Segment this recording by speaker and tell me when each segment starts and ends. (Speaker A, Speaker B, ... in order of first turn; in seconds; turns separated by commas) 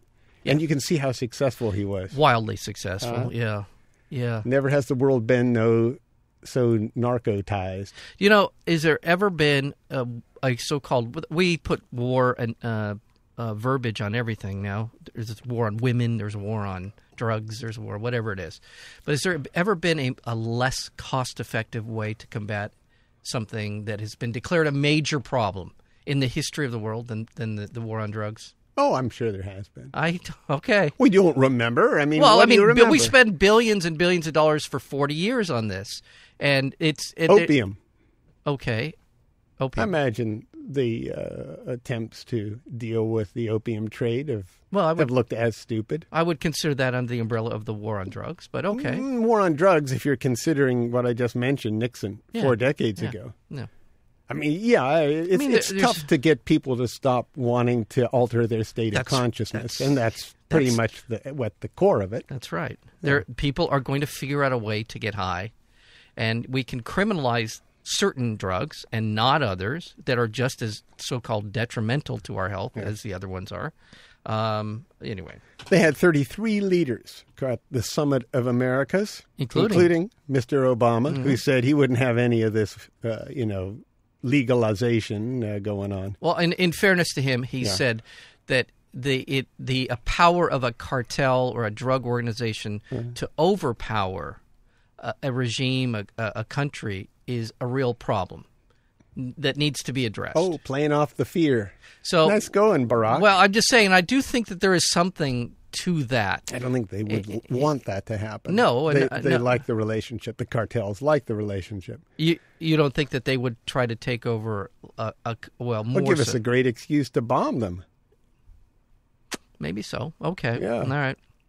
Speaker A: 0.4-2.1, Speaker B: 2.1-4.5, Speaker A: 3.0-3.3, Speaker A: 4.4-8.0, Speaker B: 8.1-28.5, Speaker A: 28.8-29.9, Speaker B: 29.9-30.9, Speaker A: 31.0-33.1, Speaker B: 32.1-37.5, Speaker A: 37.3-37.8, Speaker B: 38.5-39.0, Speaker B: 39.6-39.9, Speaker A: 39.8-46.1, Speaker B: 44.7-45.1, Speaker B: 46.1-49.0, Speaker A: 48.7-53.3, Speaker B: 52.3-53.7, Speaker A: 54.3-62.3, Speaker B: 55.3-56.1, Speaker B: 58.9-59.9, Speaker B: 60.5-60.8, Speaker B: 62.3-65.5, Speaker B: 66.2-73.7, Speaker B: 74.2-75.4, Speaker A: 75.6-86.2, Speaker B: 79.4-79.9, Speaker B: 81.1-81.4, Speaker B: 86.2-94.4, Speaker B: 95.0-98.5, Speaker B: 99.2-100.5, Speaker A: 100.3-103.2, Speaker B: 102.0-102.5, Speaker B: 103.1-106.5, Speaker A: 106.5-112.0, Speaker B: 107.1-107.7, Speaker B: 108.5-109.6, Speaker B: 112.2-116.4, Speaker A: 115.9-117.8, Speaker B: 119.6-121.2, Speaker A: 120.6-120.9